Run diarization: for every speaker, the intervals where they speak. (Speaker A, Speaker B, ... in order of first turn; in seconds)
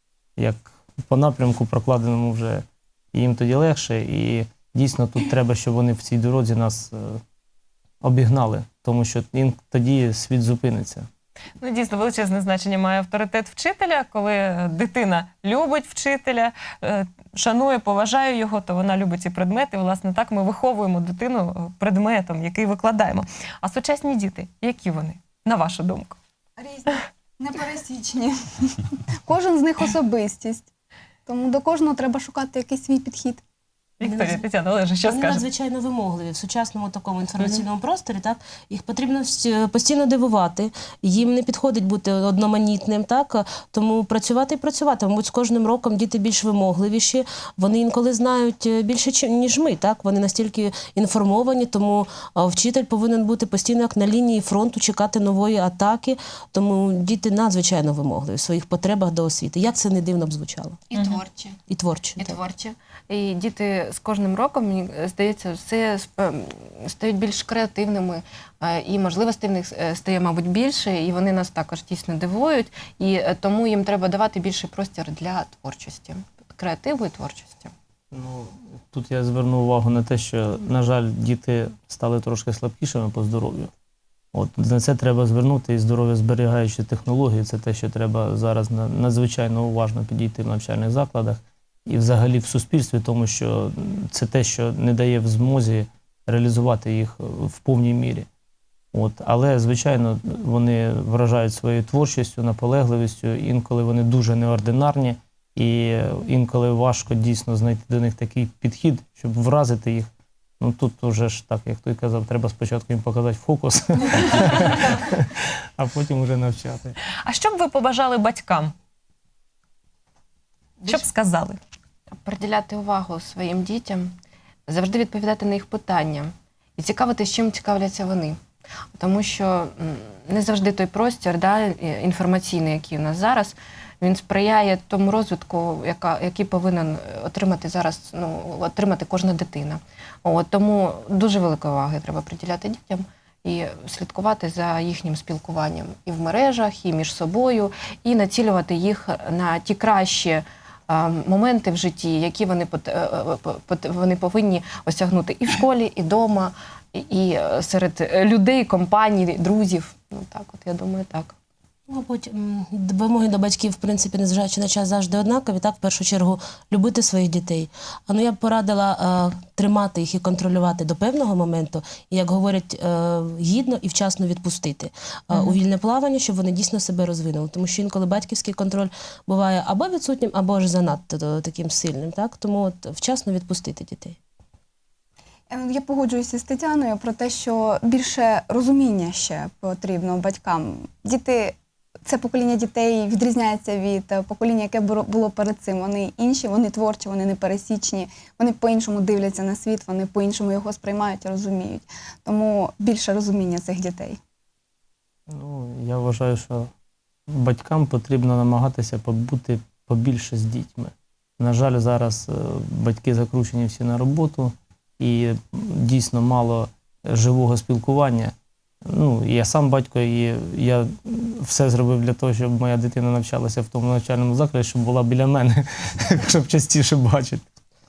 Speaker A: 0.4-7.2, 8.0-11.1, 78.1-83.7, 84.3-98.3, 98.9-117.0, 205.3-206.7, 207.3-218.3, 218.9-227.5
Speaker B: 11.6-26.2, 34.0-35.5, 117.2-118.7, 120.9-121.6
Speaker C: 26.6-30.7, 31.3-33.4, 185.5-204.2
Speaker D: 34.0-34.4, 35.0-60.8, 61.7-62.4, 161.9-184.2
Speaker E: 60.9-61.6, 62.2-77.7, 120.8-121.1, 122.2-124.1, 124.7-128.4, 128.9-161.3